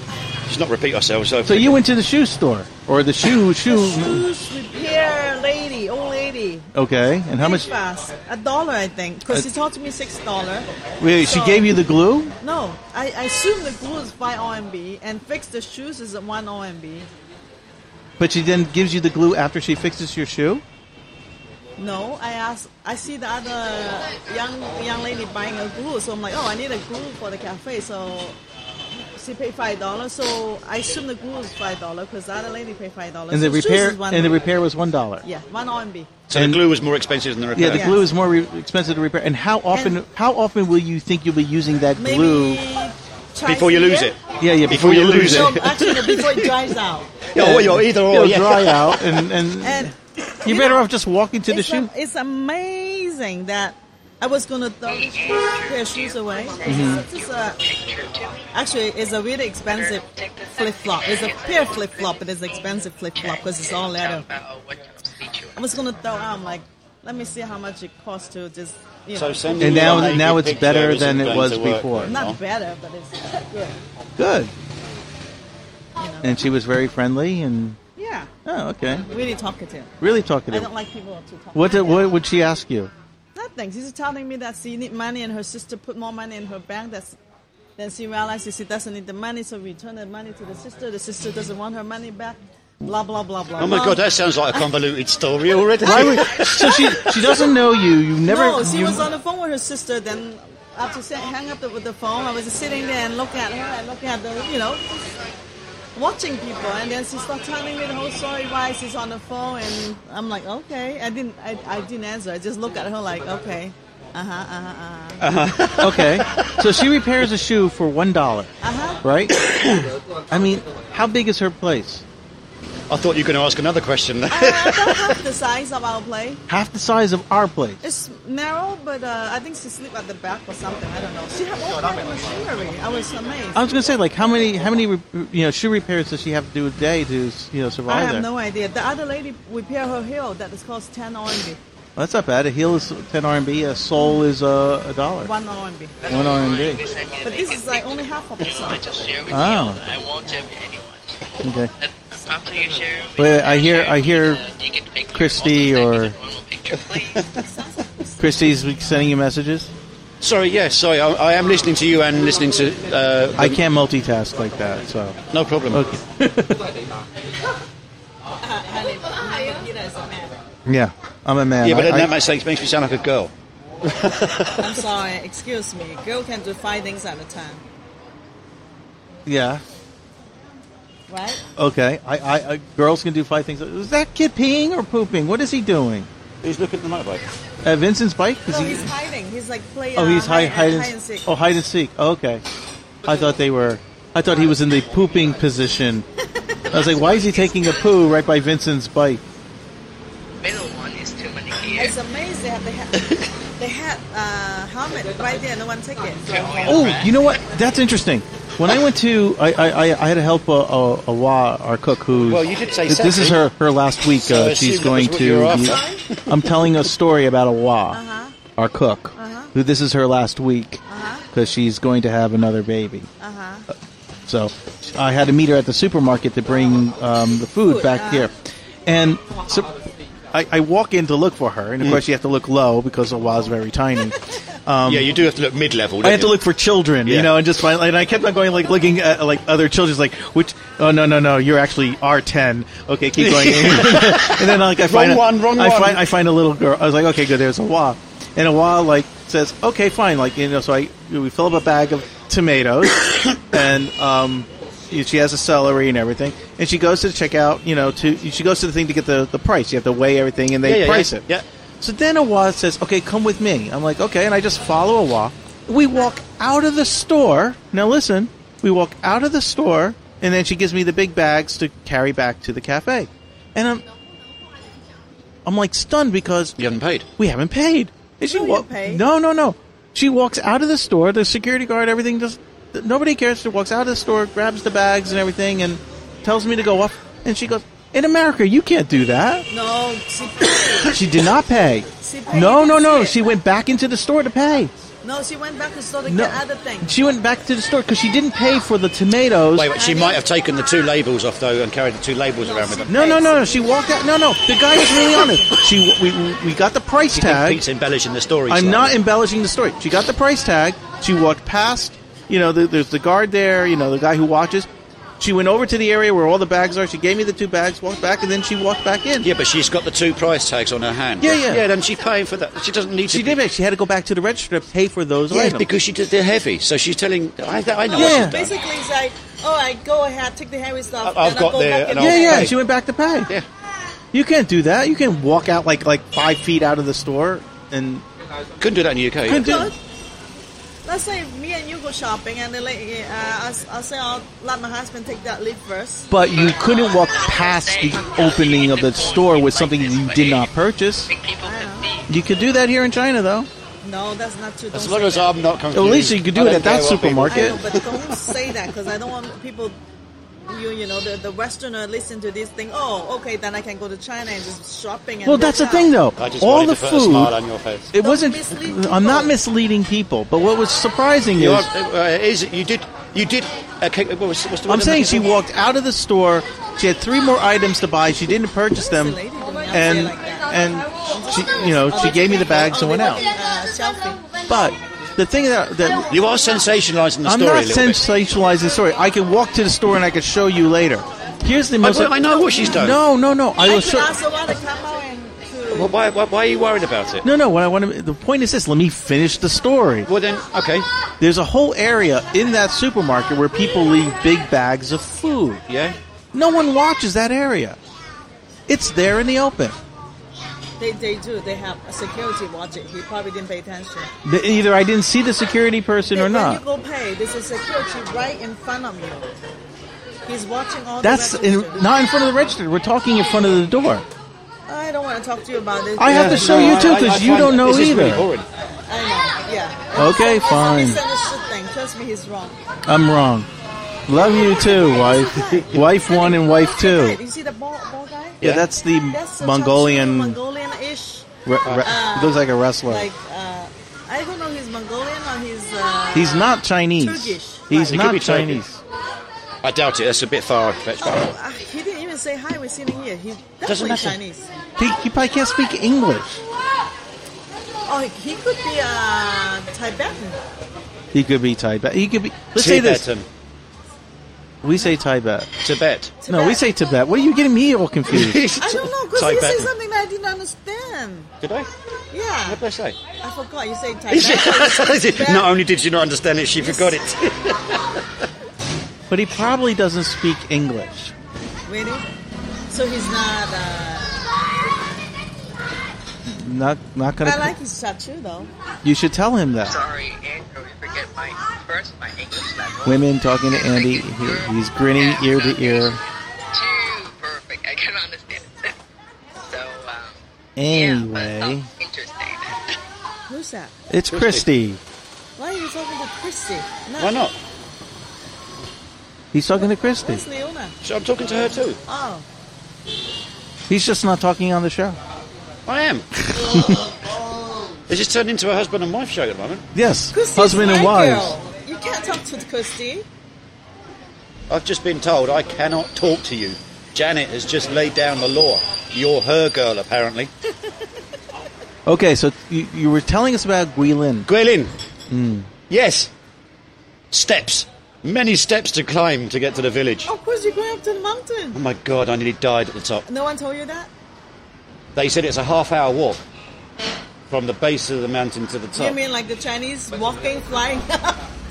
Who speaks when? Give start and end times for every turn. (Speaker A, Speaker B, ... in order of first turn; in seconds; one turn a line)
Speaker A: 0.5-1.8
Speaker B: 1.4-4.2
Speaker C: 3.6-6.7
Speaker B: 6.7-7.7
Speaker C: 7.4-11.8
Speaker B: 11.0-12.3
Speaker C: 12.4-17.1
Speaker B: 18.2-20.6
Speaker C: 21.8-28.4
Speaker C: 28.9-34.5
Speaker B: 33.3-35.2
Speaker C: 35.2-36.2
Speaker A: 36.3-37.9
Speaker B: 36.3-36.6
Speaker B: 37.5-42.6
Speaker C: 37.7-38.1
Speaker C: 39.7-40.0
Speaker C: 42.0-44.1
Speaker A: 43.4-46.5
Speaker B: 44.4-45.6
Speaker C: 45.1-47.2
Speaker B: 47.3-51.9
Speaker A: 47.3-49.0
Speaker C: 49.6-50.9
Speaker C: 51.5-57.6
Speaker D: 54.9-58.5
Speaker B: 56.6-57.0
Speaker C: 58.5-64.2
Speaker D: 59.6-62.2
Speaker D: 63.2-65.6
Speaker C: 65.5-70.1
Speaker A: 69.1-72.4
Speaker B: 69.6-72.1
Speaker C: 72.1-73.8
Speaker B: 74.2-74.5
Speaker C: 76.0-76.4
Speaker B: 76.2-77.8
Speaker C: 78.0-78.3
Speaker B: 78.4-79.0
Speaker C: 79.1-79.9
Speaker B: 80.0-80.7
Speaker C: 80.5-82.2
Speaker B: 81.5-82.9
Speaker C: 83.3-87.2
Speaker C: 87.8-94.0
Speaker A: 93.6-97.1
Speaker C: 95.8-105.0
Speaker B: 95.8-99.1
Speaker C: 105.9-115.2
Speaker A: 115.2-116.7
Speaker B: 115.8-118.5
Speaker C: 118.6-119.0
Speaker B: 119.0-119.4
Speaker A: 119.5-119.8
Speaker B: 120.3-122.0
Speaker A: 122.9-125.2
Speaker C: 124.3-126.4
Speaker B: 126.5-127.8
Speaker C: 127.8-133.7
Speaker B: 133.5-138.3
Speaker C: 134.3-134.6
Speaker C: 137.9-141.6
Speaker B: 141.9-145.3
Speaker C: 144.0-144.2
Speaker C: 145.2-146.0
Speaker D: 146.0-151.2
Speaker B: 146.1-146.8
Speaker C: 147.2-148.9
Speaker B: 149.3-149.8
Speaker B: 151.4-151.7
Speaker D: 151.8-157.4
Speaker B: 153.2-154.4
Speaker B: 155.1-156.2
Speaker C: 157.3-158.4
Speaker B: 158.2-159.7
Speaker A: 160.2-163.6
Speaker B: 163.4-165.2
Speaker A: 165.3-165.8
Speaker B: 165.7-166.6
Speaker C: 168.4-170.4
Speaker B: 170.7-172.1
Speaker A: 171.6-174.8
Speaker C: 174.6-177.6
Speaker B: 179.2-179.6
Speaker C: 181.1-181.4
Speaker B: 181.6-186.1
Speaker A: 186.4-187.2
Speaker B: 187.6-188.9
Speaker C: 188.5-191.3
Speaker B: 189.9-192.4
Speaker B: 193.0-196.0
Speaker C: 196.4-197.9
Speaker B: 196.7-199.2
Speaker D: 200.4-202.0
Speaker C: 201.7-206.9
Speaker D: 206.2-207.3
Speaker B: 206.7-218.0
Speaker A: 212.3-213.5
Speaker A: 214.2-216.7
Speaker C: 215.5-216.0
Speaker C: 217.9-218.3
Speaker B: 218.6-220.8
Speaker C: 219.2-219.5
Speaker C: 220.9-221.3
Speaker B: 221.3-223.1
Speaker C: 223.2-223.7
Speaker B: 224.3-228.3
Speaker C: 227.6-228.3
Speaker B: 228.8-235.1
Speaker A: 234.8-236.4
Speaker B: 236.0-261.2
Speaker A: 237.0-237.3
Speaker A: 243.2-246.0
Speaker A: 260.6-261.4
Speaker B: 261.8-273.8
Speaker B: 275.4-276.6
Speaker A: 276.6-277.1
Speaker B: 277.2-289.5
Speaker C: 278.2-279.1
Speaker C: 289.5-291.1
Speaker B: 290.7-294.7
Speaker C: 292.0-293.2
Speaker C: 295.0-297.0
Speaker B: 296.1-299.7
Speaker A: 299.5-302.9
Speaker C: 299.7-300.2
Speaker C: 302.4-303.9
Speaker B: 302.9-307.6
Speaker C: 305.1-305.5
Speaker A: 307.1-309.0
Speaker B: 308.5-314.7
Speaker B: 315.2-319.3
Speaker A: 319.2-323.4
Speaker B: 321.2-321.6
Speaker B: 323.1-325.7
Speaker A: 325.3-328.5
Speaker C: 327.9-332.5
Speaker B: 327.9-328.4
Speaker A: 331.0-332.5
Speaker B: 332.0-333.3
Speaker B: 334.1-338.0
Speaker A: 338.6-339.7
Speaker B: 339.2-339.7
Speaker C: 339.3-339.8
Speaker C: 340.8-346.1
Speaker B: 346.1-351.1
Speaker D: 346.4-350.5
Speaker D: 351.1-352.1
Speaker C: 351.4-351.9
Speaker B: 352.1-353.5
Speaker C: 353.8-355.3
Speaker A: 354.7-358.4
Speaker B: 355.7-357.6
Speaker C: 357.3-359.8
Speaker C: 360.5-365.9
Speaker B: 365.2-367.3
Speaker A: 366.2-367.9
Speaker B: 367.9-371.7
Speaker C: 367.9-369.4
Speaker A: 371.4-375.3
Speaker B: 374.7-383.2
Speaker C: 378.7-384.2
Speaker B: 384.5-386.1
Speaker A: 386.1-388.0
Speaker B: 387.2-394.1
Speaker A: 391.8-393.0
Speaker C: 393.6-395.9
Speaker A: 395.7-397.2
Speaker B: 397.2-400.1
Speaker A: 400.0-400.9
Speaker B: 401.2-405.6
Speaker A: 405.7-406.0
Speaker B: 406.3-407.8
Speaker B: 408.7-409.8
Speaker C: 410.8-414.1
Speaker B: 414.2-416.6
Speaker C: 416.1-419.3
Speaker C: 420.2-421.9
Speaker B: 421.0-424.0
Speaker C: 424.7-427.2
Speaker B: 426.0-428.3
Speaker A: 426.1-428.5
Speaker C: 428.9-432.6
Speaker B: 429.9-431.0
Speaker B: 432.9-433.5
Speaker B: 434.1-437.2
Speaker C: 434.7-438.4
Speaker A: 438.4-438.6
Speaker B: 438.4-440.4
Speaker C: 439.1-441.3
Speaker B: 441.4-443.1
Speaker C: 441.8-447.9
Speaker B: 446.1-448.8
Speaker A: 447.8-448.6
Speaker A: 449.6-451.3
Speaker C: 451.0-454.5
Speaker A: 453.6-454.2
Speaker B: 454.8-456.4
Speaker C: 457.9-460.4
Speaker B: 461.1-463.1
Speaker A: 462.6-463.3
Speaker B: 464.6-465.5
Speaker A: 465.6-466.1
Speaker C: 466.2-466.7
Speaker B: 466.3-468.4
Speaker A: 468.1-469.7
Speaker C: 468.6-471.3
Speaker A: 471.4-471.7
Speaker C: 472.1-472.6
Speaker A: 472.4-473.0
Speaker C: 473.2-475.5
Speaker A: 474.1-478.0
Speaker C: 476.6-476.9
Speaker B: 479.1-481.1
Speaker C: 481.7-482.0
Speaker C: 482.7-484.3
Speaker B: 486.2-487.5
Speaker C: 487.2-488.5
Speaker B: 488.8-489.7
Speaker D: 489.7-493.0
Speaker B: 492.8-496.0
Speaker D: 493.6-498.7
Speaker D: 499.4-500.1
Speaker B: 500.6-501.7
Speaker D: 500.7-502.7
Speaker C: 503.3-503.7
Speaker B: 503.9-504.8
Speaker A: 504.1-504.5
Speaker C: 505.4-507.1
Speaker A: 507.0-507.3
Speaker B: 509.3-510.2
Speaker C: 509.6-510.7
Speaker A: 510.8-511.8
Speaker C: 511.9-512.2
Speaker B: 513.7-515.0
Speaker A: 515.6-516.2
Speaker B: 516.3-516.8
Speaker A: 517.9-519.7
Speaker B: 519.7-521.4
Speaker C: 520.1-523.0
Speaker A: 524.5-530.3
Speaker B: 531.9-534.3
Speaker A: 534.2-534.7
Speaker B: 535.1-535.5
Speaker A: 535.7-536.1
Speaker A: 537.1-540.1
Speaker C: 540.0-541.6
Speaker A: 541.5-543.0
Speaker C: 543.1-543.9
Speaker A: 544.9-546.2
Speaker A: 547.3-549.0
Speaker C: 548.7-551.2